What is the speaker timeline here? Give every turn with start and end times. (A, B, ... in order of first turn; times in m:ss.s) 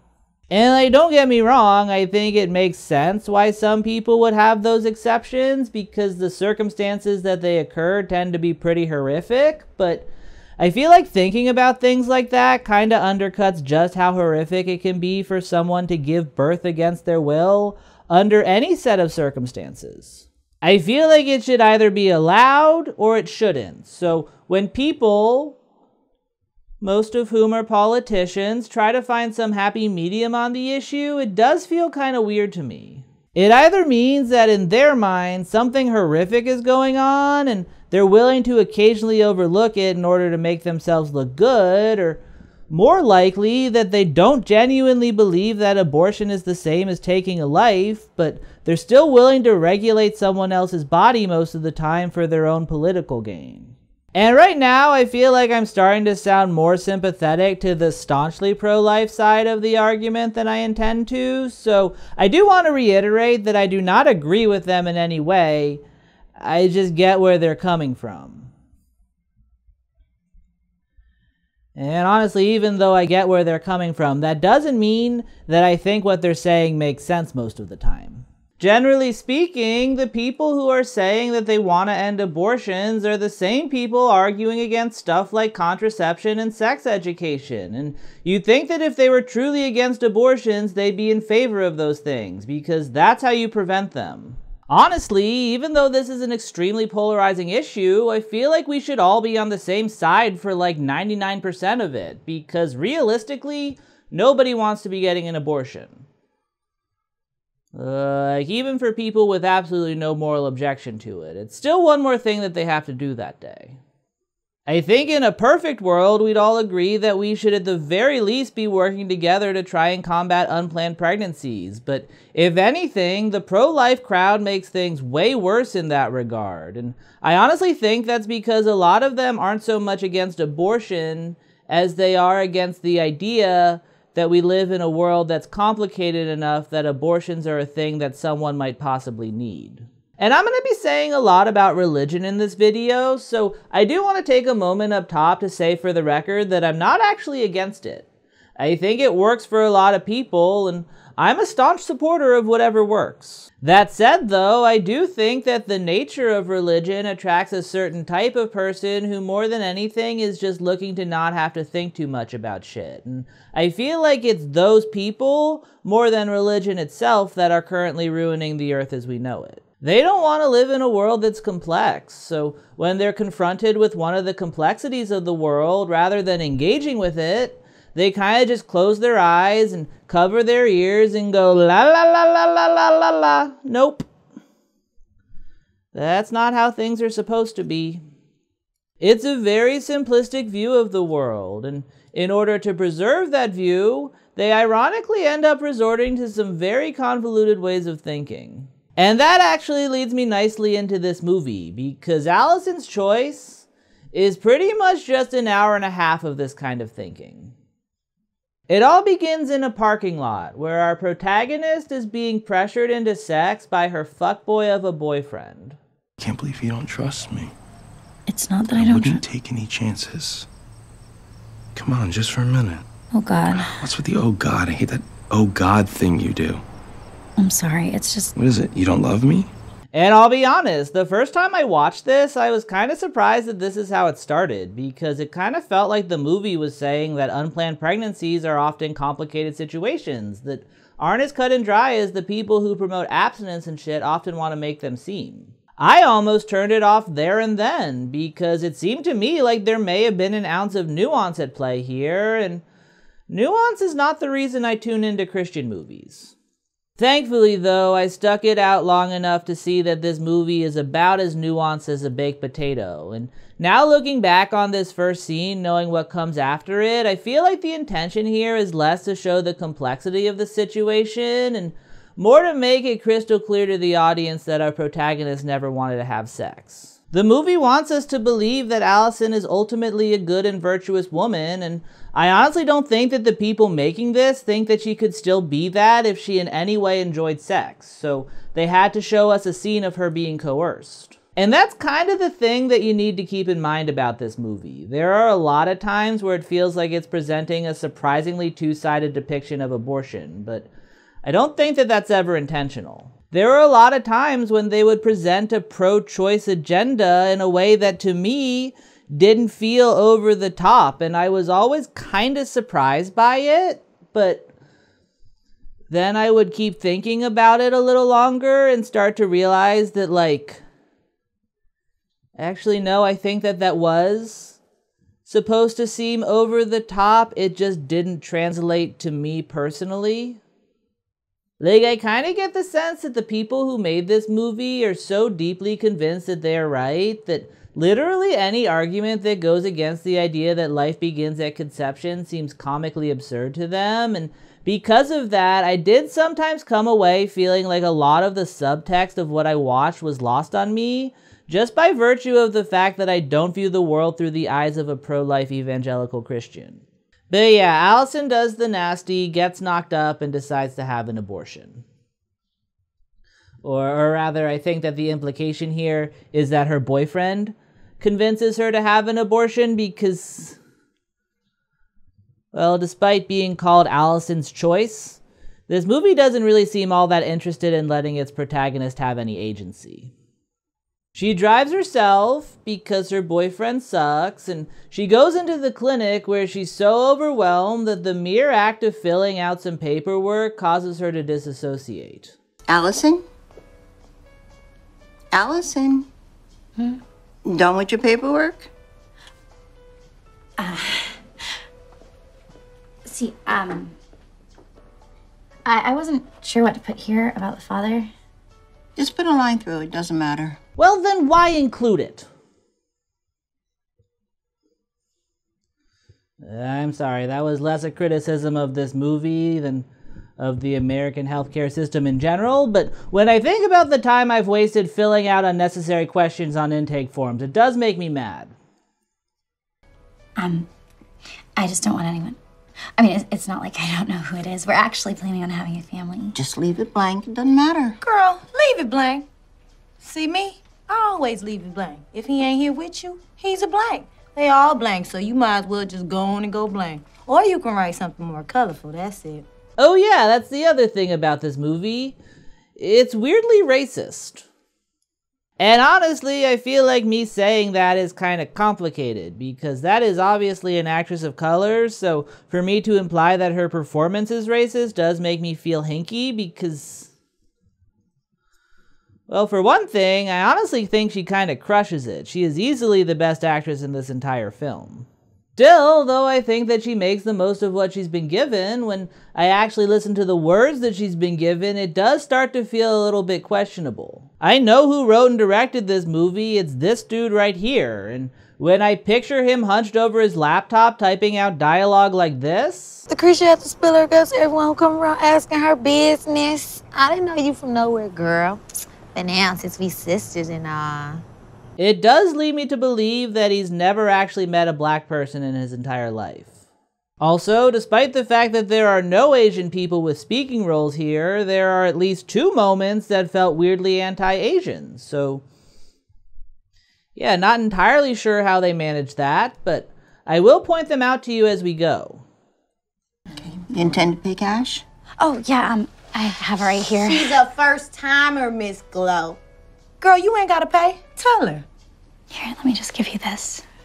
0:00.5-0:10.1 A
0:10.6-0:25.6 A
0:26.8-1:05.8 A
1:06.4-1:08.5 A
1:11.8-1:46.0 A
1:47.7-1:53.8 A
1:54.7-2:28.1 A
2:28.6-3:04.1 A
3:05.9-3:08.0 A
3:09.0-3:27.5 A
3:28.7-3:35.8 A
3:36.2-3:37.5 B
3:38.3-3:39.2 C
3:38.7-3:40.5 B
3:41.8-3:42.8 B
3:43.1-3:43.8 C
3:43.5-3:46.6 B
3:47.4-3:48.3 C
3:48.4-3:49.5 B
3:49.9-4:12.6 A
4:13.3-4:16.3 A
4:17.0-5:00.7 A
5:01.2-5:14.5 A
5:15.9-5:20.6 A
5:22.4-5:24.6 A
5:25.2-5:30.4 A
5:31.6-6:01.8 A
6:03.6-6:10.6 A
6:12.5-6:20.1 A
6:21.2-6:32.4 A
6:32.7-6:33.2 D
6:35.3-6:36.1 D
6:37.4-6:38.7 D
6:40.6-6:41.2 C
6:43.0-6:44.0 C
6:45.6-6:48.1 C
6:49.0-6:50.6 D
6:50.8-6:52.3 A
6:56.4-6:59.9 A
7:00.4-7:08.5 A
7:10.4-7:10.7 C
7:11.6-7:12.4 C
7:13.0-7:16.4 C
7:16.3-7:18.0 D
7:18.0-7:19.3 E
7:20.0-7:29.4 E
7:29.8-7:32.2 A
7:32.8-7:34.4 A
7:35.6-7:47.1 A
7:49.3-8:13.1 A
8:13.1-8:18.6 E
8:19.1-8:21.2 E
8:21.8-8:26.5 A
8:27.2-8:35.4 A
8:37.2-8:42.2 A
8:43.4-8:44.8 D
8:45.2-8:47.4 C
8:47.0-8:49.4 E
8:50.0-8:51.7 E
8:52.3-8:53.6 C